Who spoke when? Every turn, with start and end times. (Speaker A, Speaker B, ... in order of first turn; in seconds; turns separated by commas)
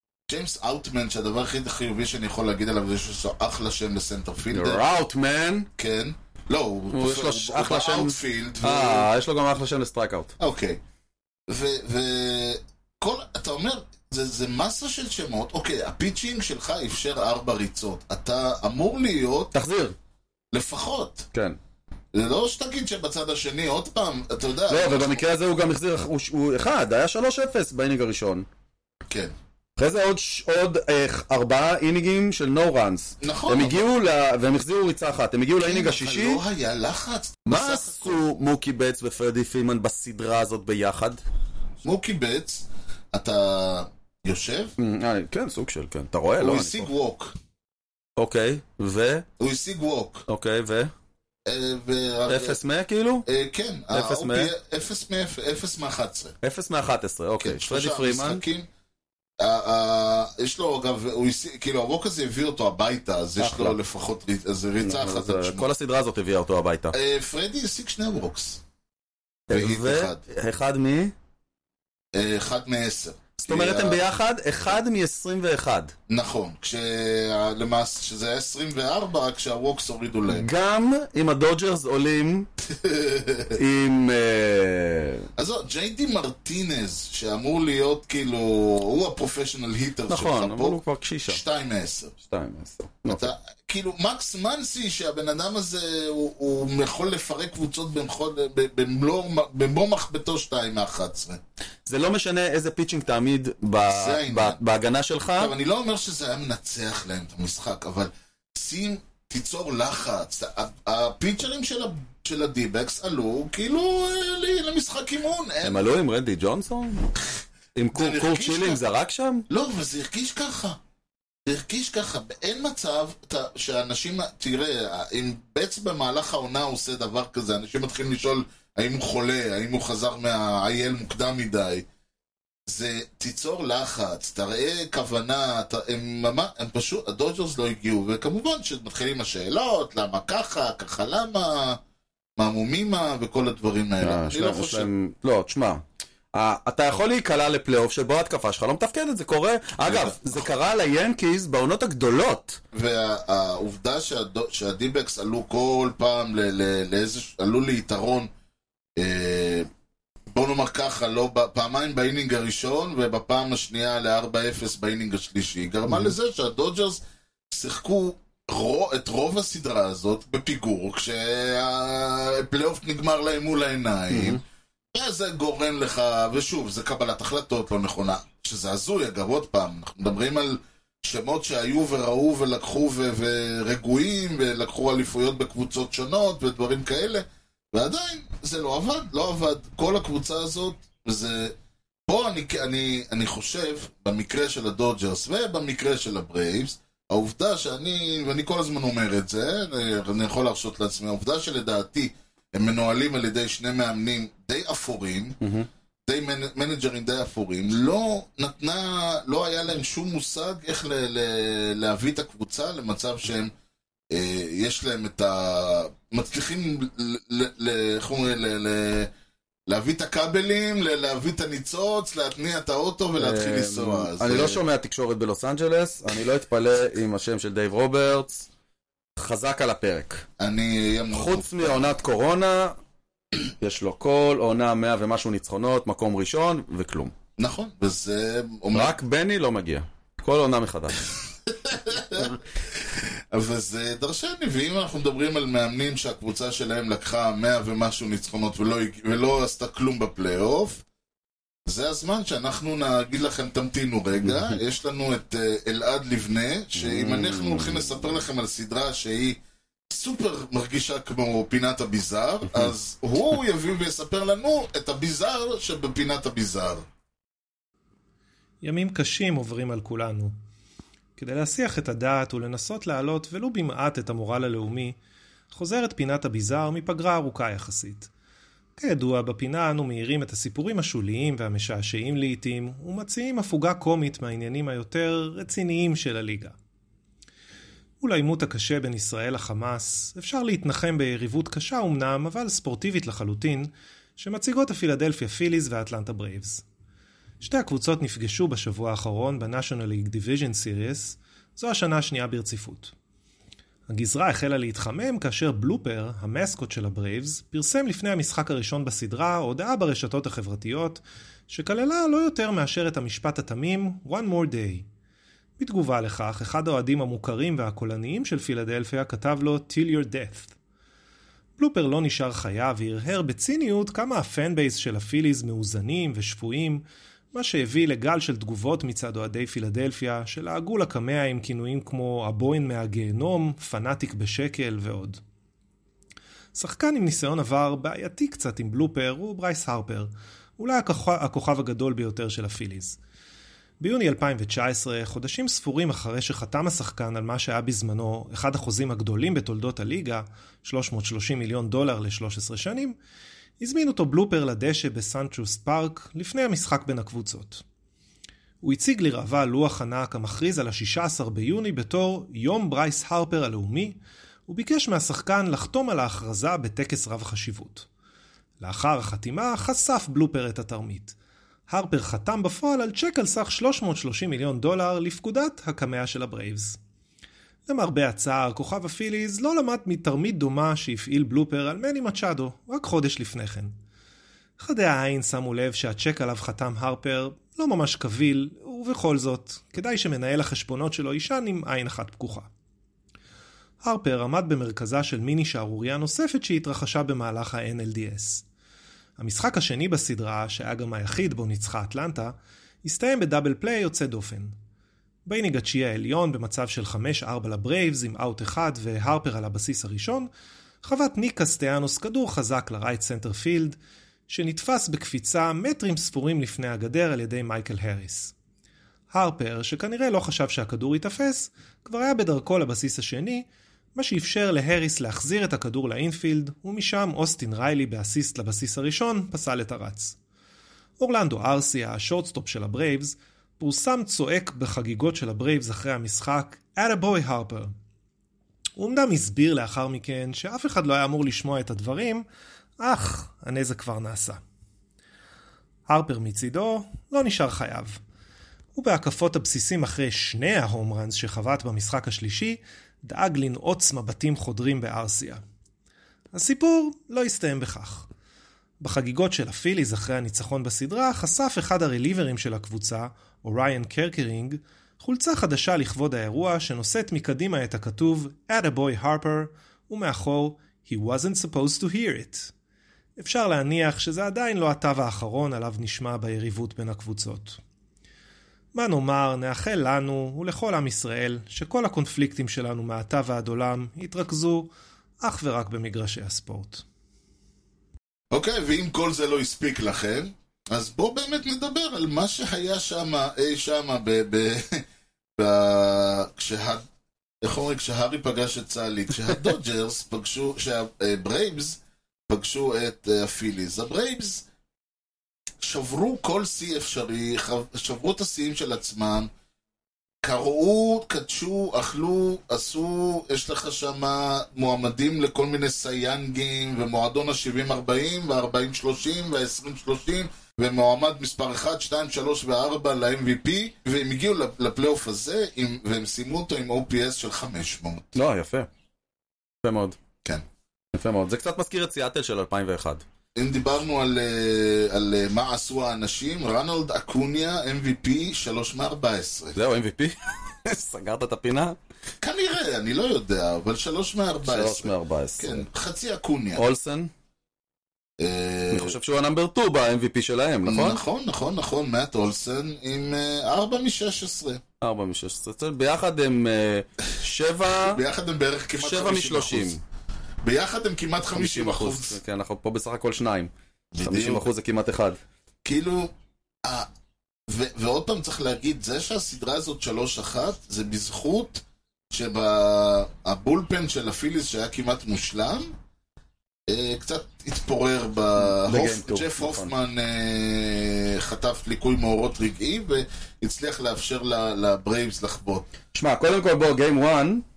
Speaker A: 0.3-4.8, Speaker B: 4.5-5.7, Speaker A: 5.8-9.1, Speaker B: 6.9-10.3, Speaker A: 10.4-10.8, Speaker A: 11.5-19.5, Speaker B: 19.5-19.9, Speaker A: 20.5-21.3, Speaker A: 22.1-25.2, Speaker B: 24.7-28.5, Speaker B: 29.8-36.4, Speaker A: 33.2-33.9, Speaker A: 35.6-38.2, Speaker B: 37.5-41.2, Speaker A: 41.8-44.7, Speaker B: 44.8-46.9, Speaker A: 46.4-47.3, Speaker B: 48.2-49.2, Speaker A: 49.4-50.2, Speaker B: 50.3-50.9, Speaker A: 51.5-52.6, Speaker B: 52.3-53.2, Speaker A: 53.2-56.4, Speaker B: 53.9-54.5, Speaker B: 56.4-58.4, Speaker A: 57.4-58.7, Speaker A: 59.4-65.7, Speaker B: 63.4-63.8, Speaker B: 64.8-66.9, Speaker A: 66.9-68.6, Speaker B: 69.5-71.1, Speaker A: 69.5-70.2, Speaker A: 72.1-74.0, Speaker B: 73.4-75.9, Speaker A: 76.1-80.5, Speaker B: 80.3-82.5, Speaker A: 82.7-83.6, Speaker B: 83.5-85.3, Speaker A: 85.4-92.1, Speaker B: 90.1-91.4, Speaker B: 92.2-93.3, Speaker A: 93.1-101.4, Speaker B: 101.8-105.5, Speaker A: 103.9-104.6, Speaker A: 105.4-115.9, Speaker B: 115.6-117.1, Speaker B: 117.8-119.5, Speaker A: 117.9-118.8, Speaker A: 119.5-120.8, Speaker A: 121.5-131.8, Speaker A: 132.7-141.8, Speaker A: 142.4-144.9, Speaker B: 144.0-152.6, Speaker A: 149.8-150.4, Speaker A: 152.7-158.3, Speaker A: 159.0-159.7, Speaker A: 160.3-174.4, Speaker B: 165.9-166.1, Speaker B: 174.1-174.4, Speaker A: 174.9-191.5, Speaker A: 192.1-205.4, Speaker B: 205.4-205.7, Speaker A: 206.1-213.5, Speaker A: 214.1-219.1, Speaker A: 219.7-224.6, Speaker B: 223.2-228.5, Speaker B: 229.2-230.2, Speaker A: 230.4-231.9, Speaker B: 231.1-232.8, Speaker B: 233.6-237.1, Speaker A: 237.4-238.9, Speaker B: 238.7-241.0, Speaker A: 241.5-242.4, Speaker A: 242.9-250.8, Speaker A: 251.7-259.4, Speaker B: 254.2-254.6, Speaker B: 256.8-258.1, Speaker A: 259.9-266.9, Speaker C: 268.6-270.3, Speaker C: 271.2-274.9, Speaker C: 275.5-278.1, Speaker C: 278.8-286.5, Speaker C: 288.0-296.6, Speaker C: 297.4-302.9, Speaker C: 303.9-314.9, Speaker C: 315.6-320.5, Speaker C: 321.6-335.2, Speaker C: 336.5-343.0, Speaker C: 343.8-352.9, Speaker C: 353.6-357.6, Speaker C: 358.6-367.9, Speaker C: 368.6-371.1, Speaker C: 371.7-376.8, Speaker C: 377.7-383.7, Speaker C: 384.6-392.5, Speaker C: 393.8-398.4, Speaker C: 399.2-404.5, Speaker C: 405.2-410.3, Speaker C: 410.8-413.8, Speaker C: 414.3-418.3, Speaker C: 419.1-430.1, Speaker C: 431.0-437.7, Speaker C: 438.8-442.2, Speaker C: 442.8-444.4, Speaker C: 445.9-448.0, Speaker C: 448.7-455.4, Speaker C: 456.3-458.1, Speaker C: 458.8-472.5, Speaker C: 473.2-477.6, Speaker C: 478.7-486.8, Speaker A: 488.3-494.8, Speaker A: 495.4-496.8, Speaker A: 497.4-504.4, Speaker A: 505.6-509.3, Speaker A: 510.2-528.1, Speaker B: 528.1-528.7, Speaker B: 529.6-530.0, Speaker B: 530.9-533.0, Speaker A: 533.4-539.6, Speaker B: 539.5-541.8, Speaker A: 542.2-546.6, Speaker B: 544.4-545.6, Speaker B: 546.5-547.1, Speaker A: 548.2-549.0, Speaker B: 548.7-551.0, Speaker A: 550.6-554.6, Speaker B: 554.8-558.0, Speaker A: 557.8-559.8, Speaker B: 558.7-559.8, Speaker A: 560.4-562.2, Speaker B: 561.3-565.2, Speaker A: 563.9-564.5, Speaker A: 565.6-566.1, Speaker A: 567.5-575.7, Speaker A: 576.7-585.7, Speaker B: 578.4-579.7, Speaker B: 585.9-587.4